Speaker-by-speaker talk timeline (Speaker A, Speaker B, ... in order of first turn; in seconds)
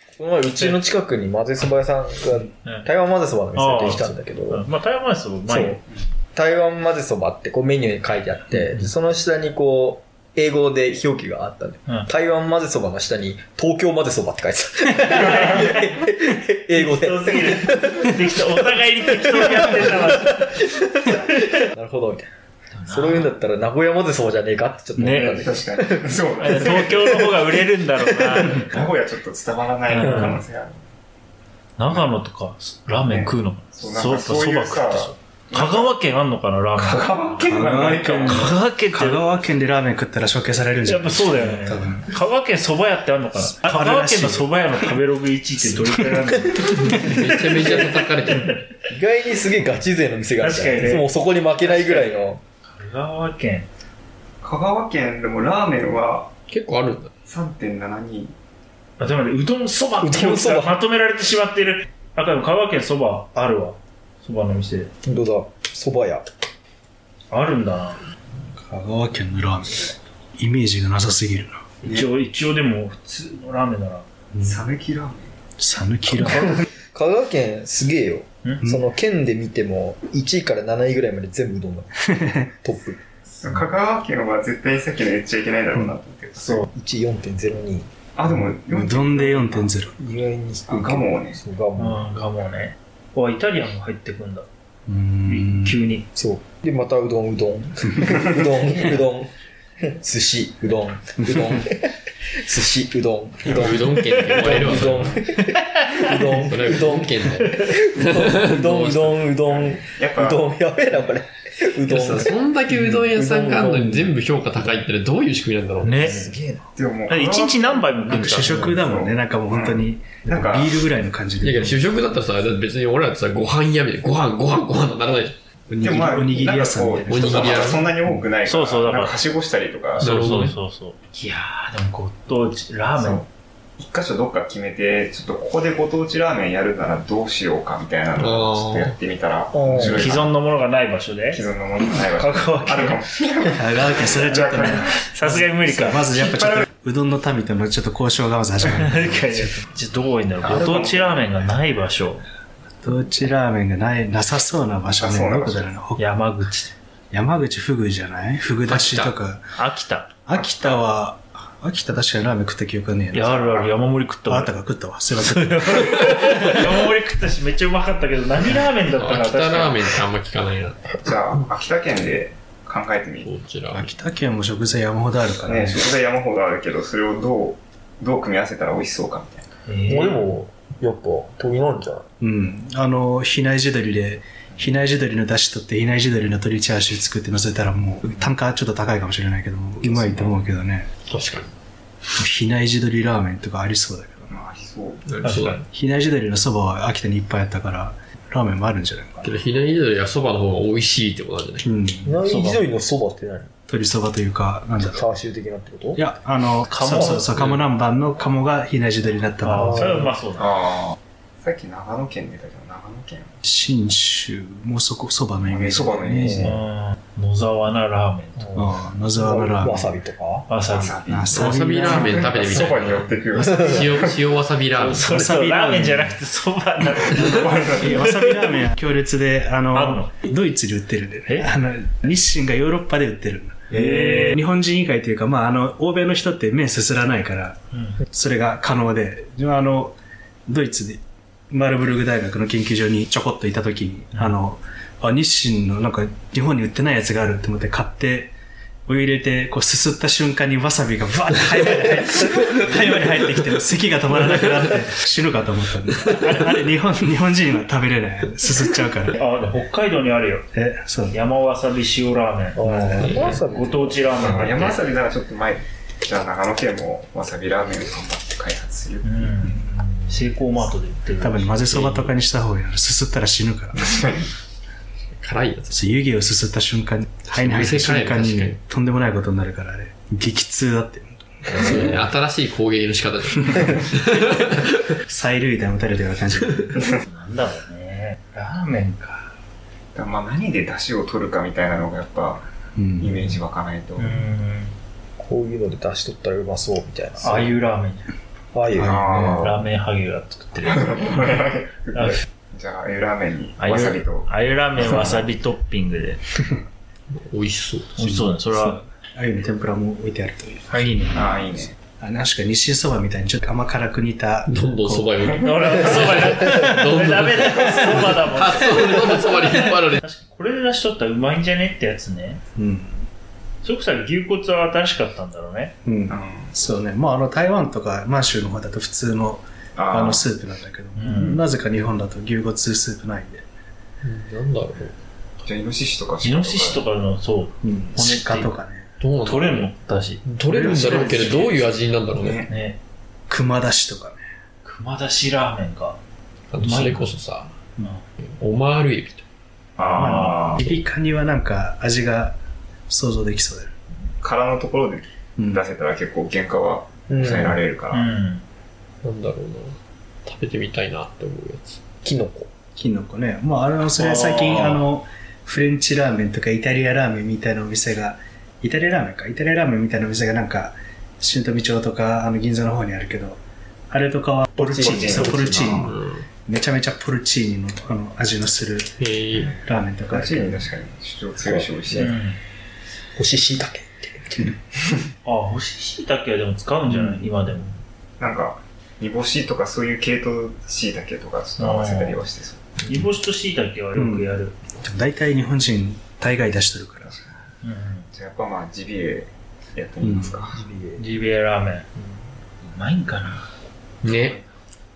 Speaker A: 0.2-4.7, 5.5-5.8, 6.3-18.1, 19.3-20.2, 20.8-22.3, 22.9-26.8, 30.0-30.3, 48.9-52.4, 60.0-60.8, 65.0-66.2, 76.9-83.2, 86.5-87.9, 89.9-92.1, 96.2-99.3, 99.9-114.2, 116.0-116.7, 139.5-140.2, 179.9-182.1, 202.1-203.5, 204.8-206.0, 209.5-210.1, 216.1-216.5, 219.2-220.5, 223.4-224.0, 262.6-264.5, 295.2-297.6, 298.5-299.4, 340.7-341.5, 357.1-357.7, 362.0-362.5, 374.6-375.9, 381.4-382.2, 383.1-384.5, 400.2-401.1
Speaker B: 3.5-5.8, 14.9-16.0, 16.7-21.5, 22.7-23.4, 25.0-25.4, 26.4-28.8, 29.9-30.4, 31.8-39.2, 40.9-48.6, 50.4-53.7, 59.0-64.9, 67.3-68.0, 71.8-74.1, 86.4-86.6, 91.8-94.5, 95.3-96.1, 104.3-104.6, 105.5-106.0, 115.8-116.3, 117.1-118.7, 128.4-129.2, 130.0-133.3, 139.8-141.4, 142.2-142.9, 144.6-146.0, 148.6-152.2, 156.0-156.7, 159.6-160.1, 163.1-164.5, 165.3-169.9, 179.7-180.3, 195.2-195.6, 202.2-202.7, 206.7-207.6, 209.4-210.5, 216.4-218.8, 220.5-221.0, 224.8-228.7, 229.7-230.1, 233.7-234.3, 237.7-238.0, 259.1-260.5, 261.1-264.8, 269.0-272.0, 287.0-289.3, 294.0-294.8, 297.2-298.1, 299.4-301.2, 301.9-302.2, 303.6-306.2, 308.0-308.8, 310.7-311.0, 315.4-322.4, 323.6-325.7, 331.0-331.4, 336.2-338.5, 339.2-341.7, 342.5-342.8, 344.6-346.0, 346.6-347.1, 349.8-350.6, 357.9-358.4, 364.0-364.8, 382.0-382.4, 385.2-387.7, 391.6-392.2, 392.9-394.6, 397.6-398.1, 401.0-401.9, 402.7-403.5
Speaker C: 25.2-27.4, 28.2-30.9, 33.0-35.9, 36.8-38.5, 54.4-56.3, 57.3-58.4, 74.4-75.3, 83.3-86.7, 88.1-89.8, 90.7-91.4, 109.5-110.6, 116.8-120.8, 125.8-130.3, 133.0-133.3, 133.8-140.3, 141.3-145.0, 145.8-146.7, 150.4-151.4, 154.9-155.7, 171.0-173.3, 175.4-179.5, 194.3-195.1, 210.4-213.3, 215.5-216.6, 220.6-224.2, 227.0-228.0, 264.1-269.6, 273.7-274.3, 289.9-292.5, 293.0-294.3, 298.8-299.6, 300.6-304.3, 311.1-311.7, 326.1-326.6, 329.8-330.3, 335.4-336.9, 342.2-342.5, 354.2-358.1, 374.8-375.8, 379.4-382.1, 388.2-392.8, 397.0-397.4, 398.1-400.6, 404.1-404.4
Speaker D: 37.4-42.1, 43.5-44.9, 45.6-47.2, 68.6-71.6, 74.3-74.6, 75.6-76.5, 82.1-82.5, 88.7-90.0, 94.9-95.8, 118.1-121.9, 125.7-127.8, 142.2-142.5, 143.5-149.5, 152.8-156.1, 157.1-159.5, 160.3-163.7, 164.3-166.1, 173.7-175.9, 182.2-190.9, 192.2-194.4, 195.7-199.3, 201.6-202.2, 203.7-205.0, 206.0-210.0, 213.4-216.5, 218.5-219.9, 221.1-222.3, 225.0-226.2, 227.7-248.3, 248.9-259.2, 260.5-261.2, 262.6-263.4, 271.2-273.9, 275.7-281.9, 285.1-286.7, 292.8-293.2, 298.7-299.5, 308.0-315.1, 322.6-323.1, 325.8-333.4, 337.6-338.9, 343.3-344.2, 349.9-352.4, 352.9-353.7, 355.4-355.7, 362.8-378.9, 379.6-380.7, 394.0-397.1, 400.0-400.4
Speaker E: 46.6-48.6, 56.5-57.1, 103.4-105.2, 106.1-109.4, 111.9-116.0, 121.4-125.3, 127.1-127.8, 130.0-130.5, 138.2-138.9, 158.7-159.2, 168.9-171.0, 173.2-173.9, 191.1-191.5, 195.1-195.6, 199.2-201.7, 221.3-225.1, 263.1-263.3, 275.2-276.0, 277.3-278.6, 281.5-284.6, 307.1-307.9, 314.5-320.0, 334.0-334.9, 339.0-339.7, 340.4-342.4, 346.5-347.5, 348.4-349.2, 359.0-361.8, 375.6-376.3, 379.0-379.5, 404.0-404.4